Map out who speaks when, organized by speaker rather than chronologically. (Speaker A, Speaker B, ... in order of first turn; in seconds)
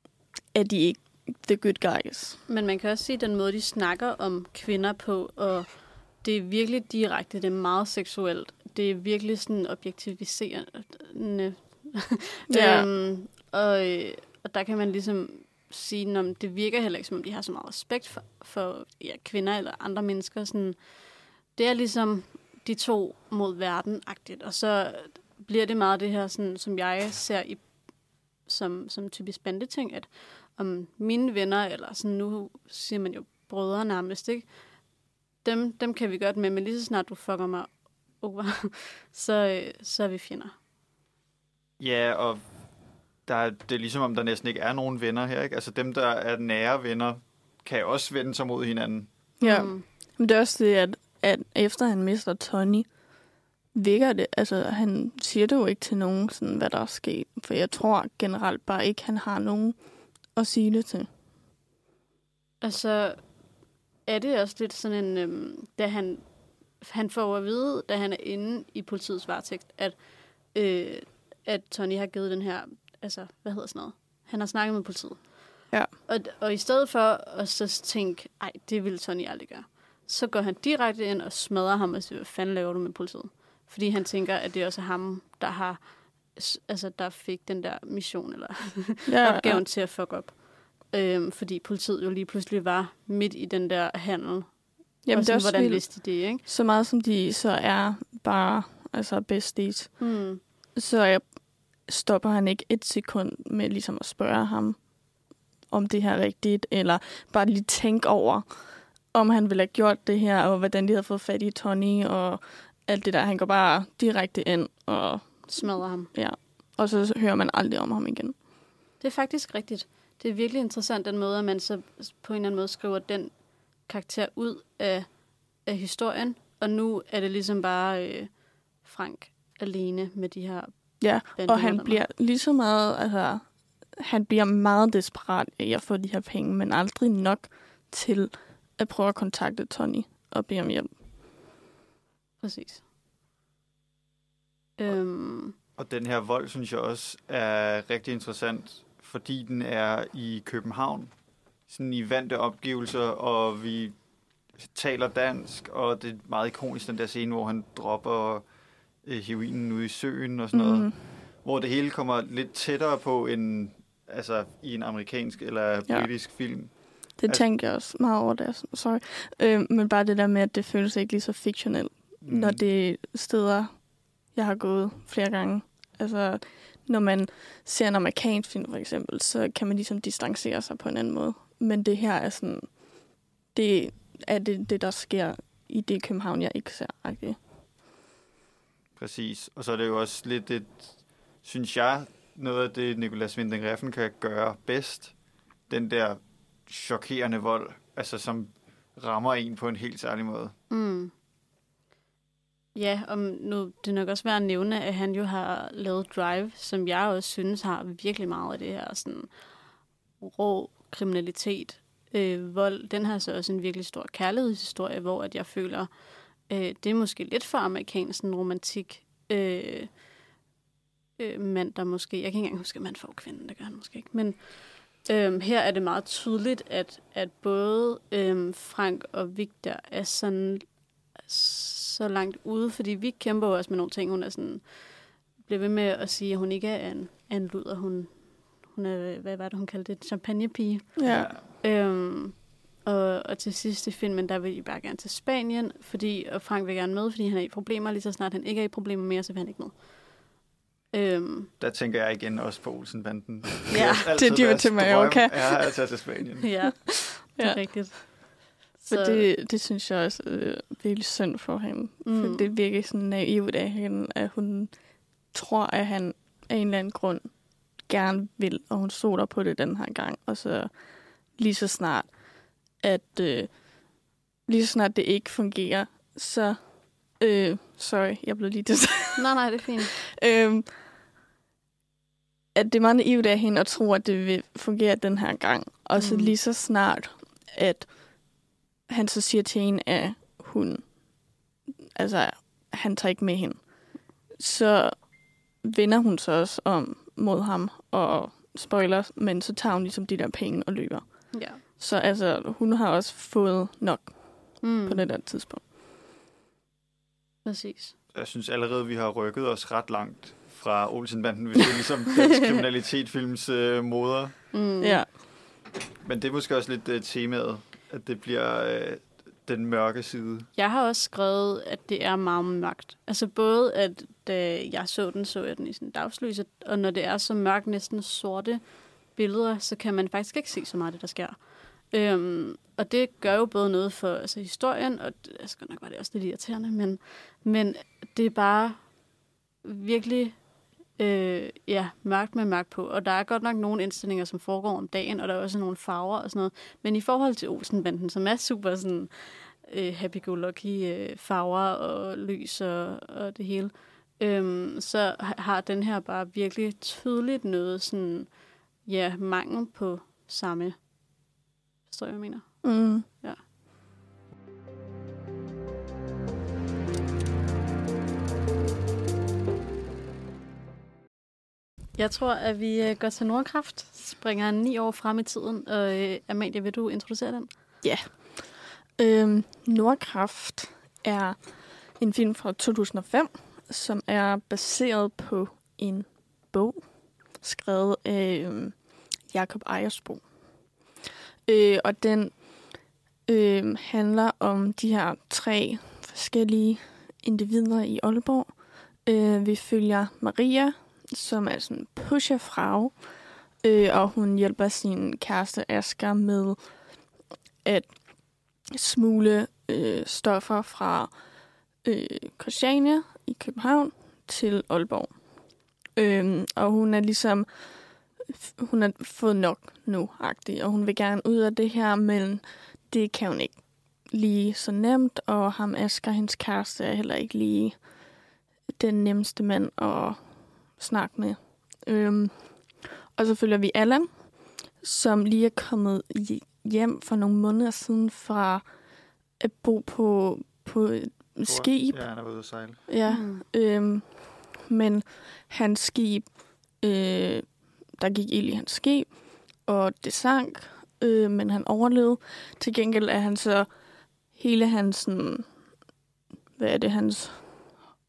Speaker A: 0.5-2.4, 12.5-12.9, 49.4-52.9, 53.7-61.1, 89.1-89.6, 95.0-100.2, 100.7-105.1, 105.7-118.3, 131.0-141.0, 160.5-160.9, 167.2-182.9, 183.5-187.4, 240.9-241.3, 254.1-255.6, 257.4-258.1, 258.9-273.9, 274.4-279.3, 279.9-280.7, 282.5-291.3, 291.9-305.6, 314.8-315.1, 362.6-363.0, 377.8-390.3, 391.4-407.0, 407.6-411.2, 411.8-415.3, 415.9-427.9, 428.8-438.7, 439.4-442.1, 442.9-453.7, 454.3-455.5, 456.6-457.7
Speaker B: 2.5-21.0, 21.5-27.6, 28.4-34.5, 35.4-40.5, 49.4-49.8, 62.6-63.2, 64.0-66.2, 66.8-70.0, 70.5-96.4, 100.0-100.4, 115.5-116.1, 119.0-123.3, 123.8-125.1, 125.6-128.3, 128.8-132.0, 142.4-142.8, 144.8-145.5, 200.7-201.1, 202.7-209.3, 210.2-215.9, 216.4-219.9, 221.2-230.6, 231.2-249.8, 250.9-251.5, 253.7-254.1, 256.4-259.3, 262.0-262.5, 279.2-279.9, 286.0-286.3, 301.3-301.6, 304.6-305.0, 307.4-307.9, 314.5-315.0, 320.6-338.8, 339.6-340.4, 341.0-360.8, 361.9-363.4, 371.9-377.5, 443.1-443.4
Speaker C: 41.8-42.4, 43.2-49.1, 145.8-151.1, 151.7-154.0, 154.6-158.4, 159.0-167.5, 172.2-172.6, 189.0-195.1, 195.7-200.5, 241.1-241.5, 251.6-256.5, 308.1-314.4, 316.0-320.5, 441.4-442.8